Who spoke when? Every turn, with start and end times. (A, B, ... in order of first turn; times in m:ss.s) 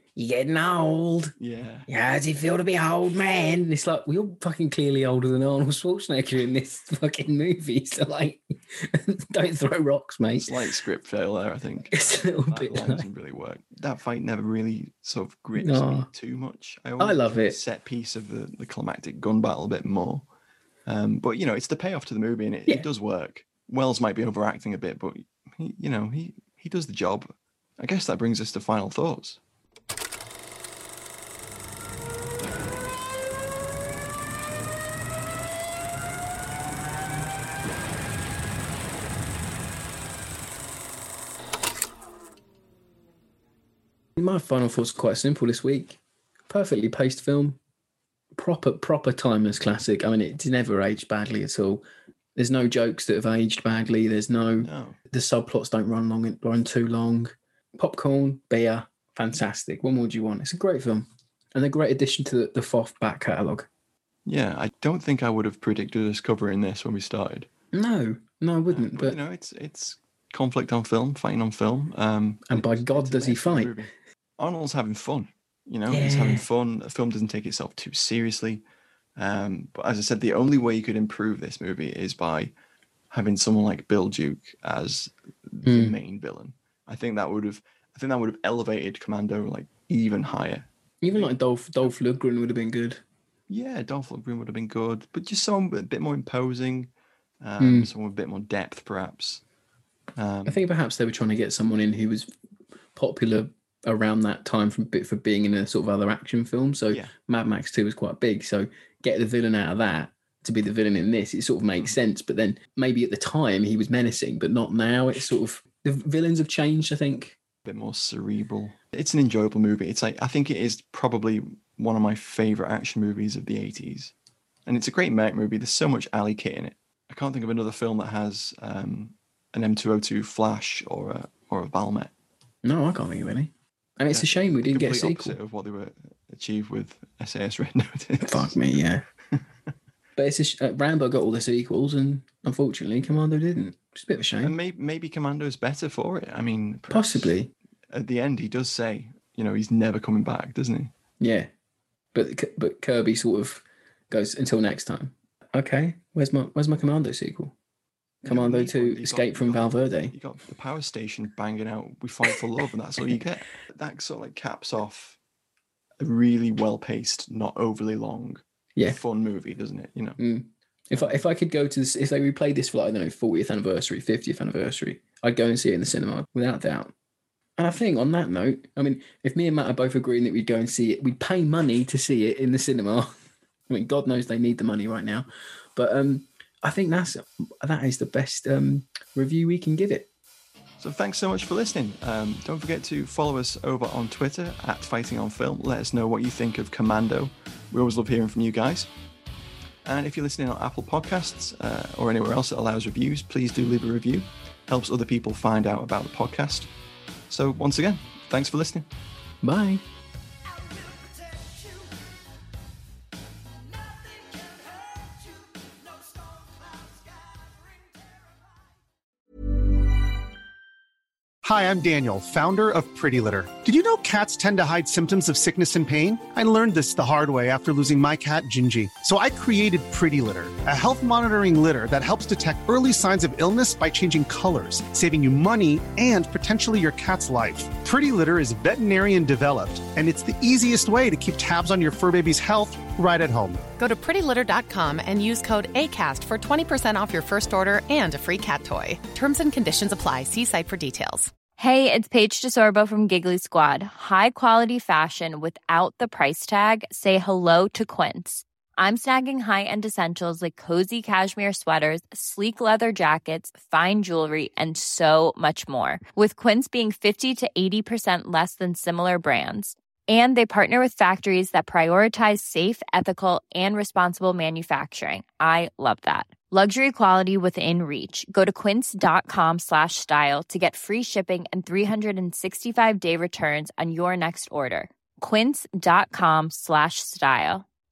0:00.2-0:01.3 A
0:01.4-0:01.9 B
0:01.9-0:10.5 A
0:10.4-0:20.2 B
0:11.9-0:13.1 A
0:15.6-0:16.1 A
0:17.0-0:17.6 A
0:20.9-0:29.4 B
0:44.2-0:46.0 A
0:46.5-0:47.6 A
0:48.4-0:51.8 A
0:52.4-1:03.7 A
0:54.6-0:55.0 B
1:04.3-1:07.5 B
1:07.7-1:09.2 A
1:08.7-1:18.6 B
1:12.5-1:13.8 A
1:15.9-1:16.4 A
1:19.2-1:22.5 B
1:23.1-1:31.9 B
1:25.6-1:26.0 A
1:31.0-1:33.0 A
1:33.5-1:36.9 B
1:37.4-1:39.4 B
1:37.6-1:37.9 A
1:40.2-1:40.6 B
1:40.5-1:42.3 A
1:43.0-1:57.4 A
1:57.6-2:04.1 B
2:04.7-2:12.1 B
2:12.6-2:15.4 A
2:14.1-2:18.7 B
2:18.2-2:19.0 A
2:20.2-2:24.5 A
2:24.4-2:27.4 B
2:26.9-2:27.5 A
2:27.9-2:30.9 B
2:31.2-2:31.5 A
2:32.1-2:37.5 A
2:38.2-2:40.1 A
2:38.2-2:45.2 B
2:46.0-2:50.2 B
2:50.2-2:56.9 A
2:50.9-2:51.2 B
2:57.6-3:03.1 A
3:03.7-3:10.1 A
3:10.8-3:18.9 B
3:19.8-3:26.7 B
3:27.3-3:28.9 B
3:29.4-3:29.8 A
3:41.4-4:03.6 C
4:03.8-4:11.3 D
4:11.6-4:47.7 E